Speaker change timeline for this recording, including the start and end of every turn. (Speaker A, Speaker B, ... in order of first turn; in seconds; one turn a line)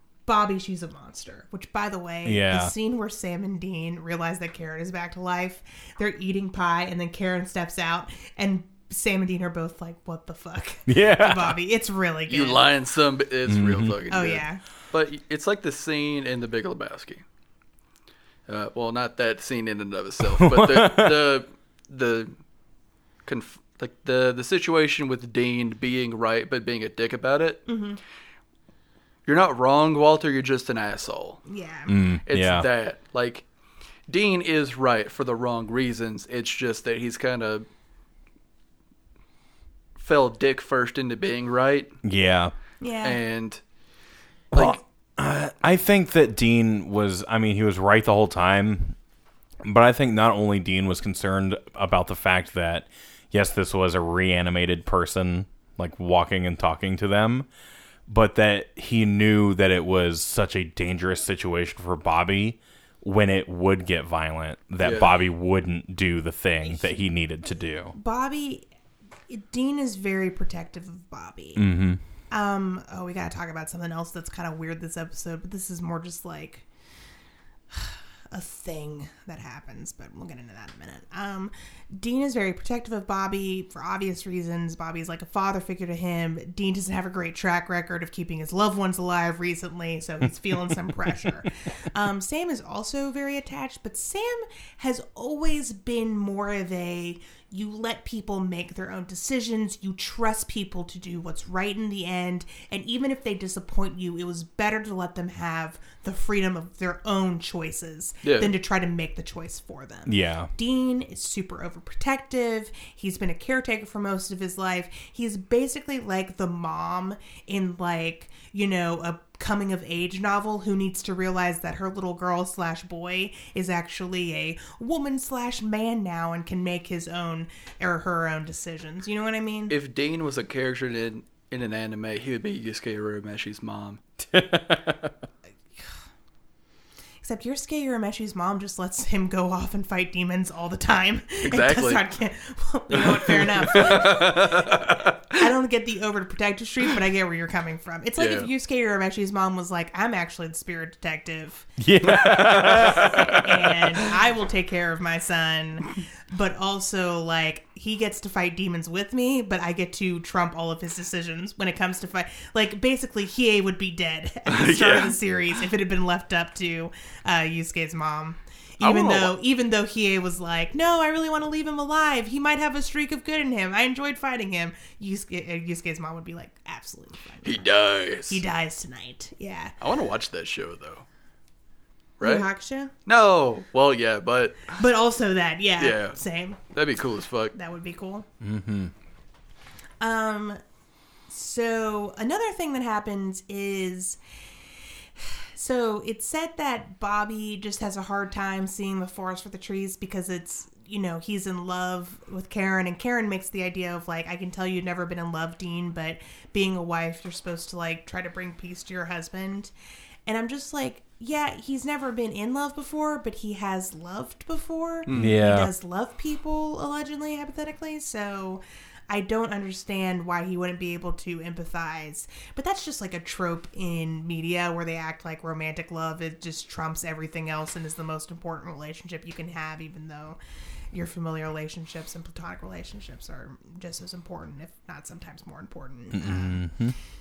Speaker A: 0.3-12.7
Speaker B: 2.2-2.7
Speaker B: 10.9-11.6
Speaker C: 12.3-17.2
Speaker B: 13.5-14.0
Speaker A: 14.1-14.6
Speaker C: 18.5-22.3
Speaker B: 20.4-21.3
Speaker C: 23.3-27.6
Speaker A: 27.7-28.0
Speaker C: 29.3-31.4
Speaker A: 31.5-31.9
Speaker B: 31.9-32.7
Speaker C: 32.3-33.4
Speaker C: 34.1-37.6
Speaker C: 40.0-41.9
Speaker B: 42.0-42.5
Speaker A: 42.8-43.2
Speaker C: 43.0-43.6
Speaker B: 44.5-49.0
Speaker C: 44.5-44.8
Speaker B: 49.6-57.5
Speaker B: 58.1-67.9
Speaker C: 64.8-65.1
Speaker A: 66.7-66.9
Speaker A: 67.9-68.7
Speaker A: 69.3-71.6
Speaker B: 71.6-72.0
Speaker A: 72.3-76.7
Speaker A: 77.7-129.8
Speaker C: 108.2-108.5
Speaker B: 110.1-110.5
Speaker C: 129.7-134.0
Speaker B: 134.3-135.1
Speaker A: 137.2-177.7
Speaker C: 141.4-142.0
Speaker C: 143.0-145.4
Speaker C: 148.2-148.5
Speaker B: 151.8-153.4
Speaker C: 152.1-153.4
Speaker C: 164.5-165.2
Speaker C: 168.8-169.3
Speaker C: 177.4-178.4
Speaker A: 178.3-179.7
Speaker C: 179.8-181.1
Speaker C: 182.2-182.5
Speaker A: 182.2-182.9
Speaker C: 183.1-184.7
Speaker A: 184.7-186.6
Speaker C: 185.8-186.2
Speaker C: 186.7-187.6
Speaker A: 187.5-188.3
Speaker B: 188.4-188.9
Speaker A: 190.0-190.6
Speaker A: 191.3-194.2
Speaker A: 195.2-209.7
Speaker A: 210.3-230.4
Speaker C: 215.1-215.4
Speaker B: 215.1-215.7
Speaker A: 230.9-236.7
Speaker B: 236.1-236.9